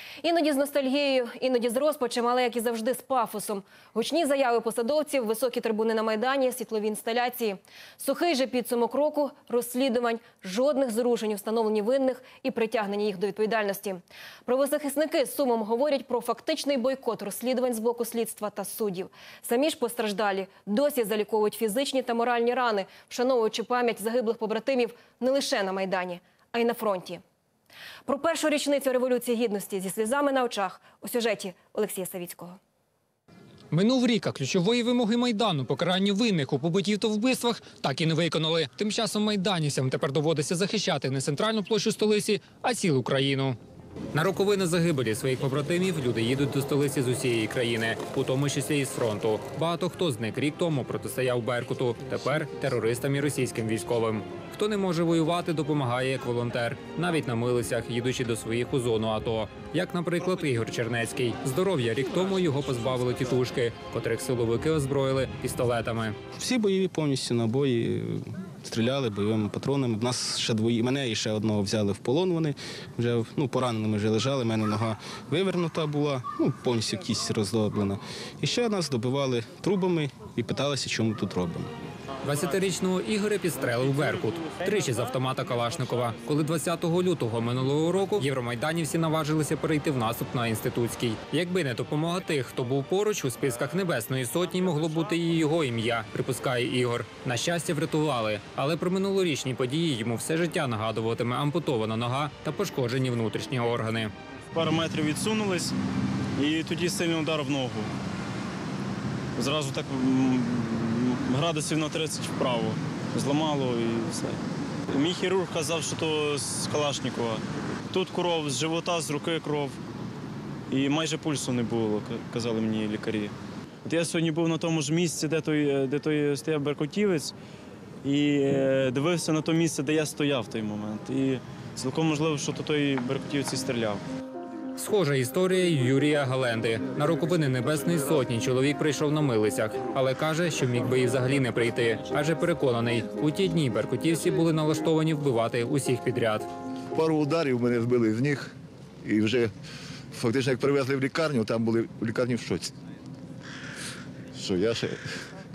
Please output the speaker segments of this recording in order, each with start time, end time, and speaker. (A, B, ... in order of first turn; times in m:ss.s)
0:00.2-0:27.2 A
0:28.1-0:32.6 A
0:33.7-0:43.6 B
0:44.1-1:06.2 B
1:06.4-1:21.7 C
1:22.2-1:44.1 B
1:44.5-1:45.8 D
1:46.4-1:47.9 D
1:49.4-1:54.4 D
1:54.9-1:59.8 D
2:00.7-2:07.3 D
2:08.0-2:14.0 D
2:14.8-2:26.5 B
2:26.9-2:29.5 E
2:30.1-2:32.7 E
2:34.3-2:35.0 E